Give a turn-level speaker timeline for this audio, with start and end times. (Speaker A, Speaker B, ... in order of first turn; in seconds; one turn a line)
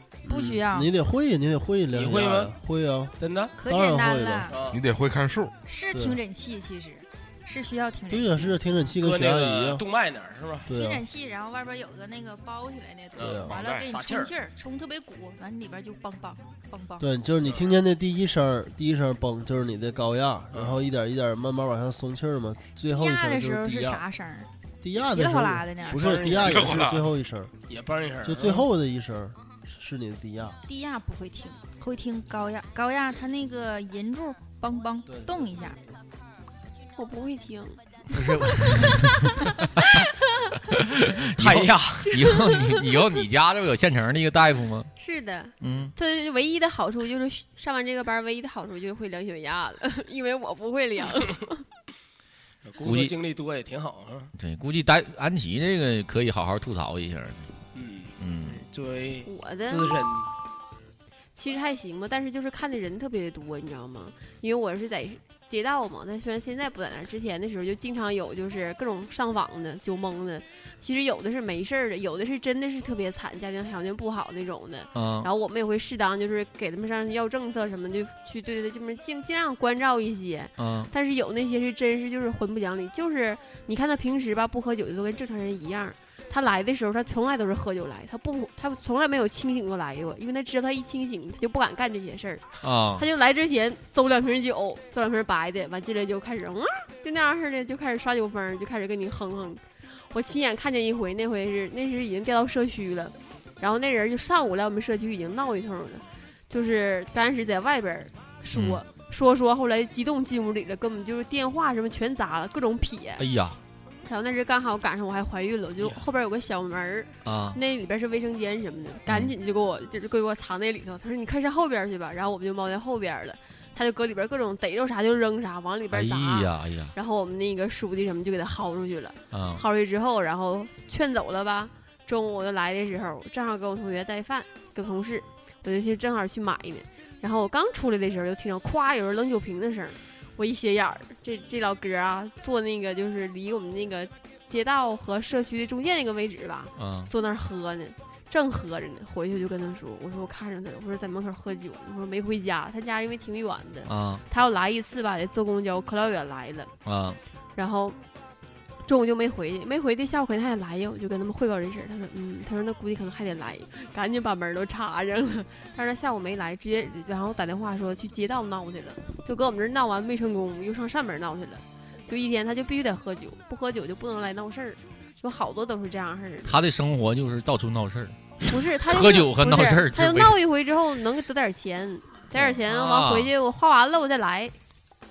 Speaker A: 0.2-4.5
Speaker B: 0.3-0.9
Speaker C: 1.9-2.5
Speaker C: 3.2-3.5
Speaker B: 3.6-4.6
Speaker C: 4.5-4.8
Speaker D: 4.7-5.5
Speaker B: 5.7-8.6
Speaker A: 5.9-6.2
Speaker A: 8.1-9.8
Speaker C: 9.0-10.7
Speaker A: 10.7-11.0
Speaker B: 10.7-17.1
Speaker C: 13.2-14.3
Speaker A: 13.2-13.5
Speaker D: 13.5-13.9
Speaker A: 17.0-24.0
Speaker C: 17.5-17.7
Speaker C: 20.5-20.9
Speaker B: 22.9-26.2
Speaker A: 24.8-27.5
Speaker C: 25.9-26.8
Speaker D: 26.4-27.1
Speaker C: 27.7-28.7
Speaker A: 28.2-30.6
Speaker B: 30.7-35.8
Speaker E: 37.0-37.8
Speaker F: 38.1-40.0
Speaker F: 40.7-44.9
Speaker C: 41.4-42.1
Speaker E: 42.1-42.9
Speaker E: 45.0-51.6
Speaker F: 45.6-45.9
Speaker C: 52.6-54.3
Speaker F: 52.8-53.1
Speaker F: 54.4-57.5
Speaker C: 57.7-60.3
Speaker F: 58.2-58.6
Speaker E: 59.2-60.0
Speaker E: 61.4-113.2
Speaker F: 74.9-75.3
Speaker F: 80.6-80.9
Speaker F: 92.6-93.0
Speaker F: 108.5-108.8
Speaker F: 113.2-113.6
Speaker E: 114.0-156.7
Speaker F: 117.2-117.6
Speaker F: 119.1-119.3
Speaker F: 125.9-126.9
Speaker F: 129.3-129.6
Speaker F: 146.8-147.1
Speaker F: 153.9-154.2
Speaker F: 156.8-157.2
Speaker E: 157.6-158.0
Speaker E: 158.9-176.6
Speaker F: 176.4-178.2
Speaker E: 178.5-184.6
Speaker F: 178.9-180.4
Speaker F: 182.3-183.3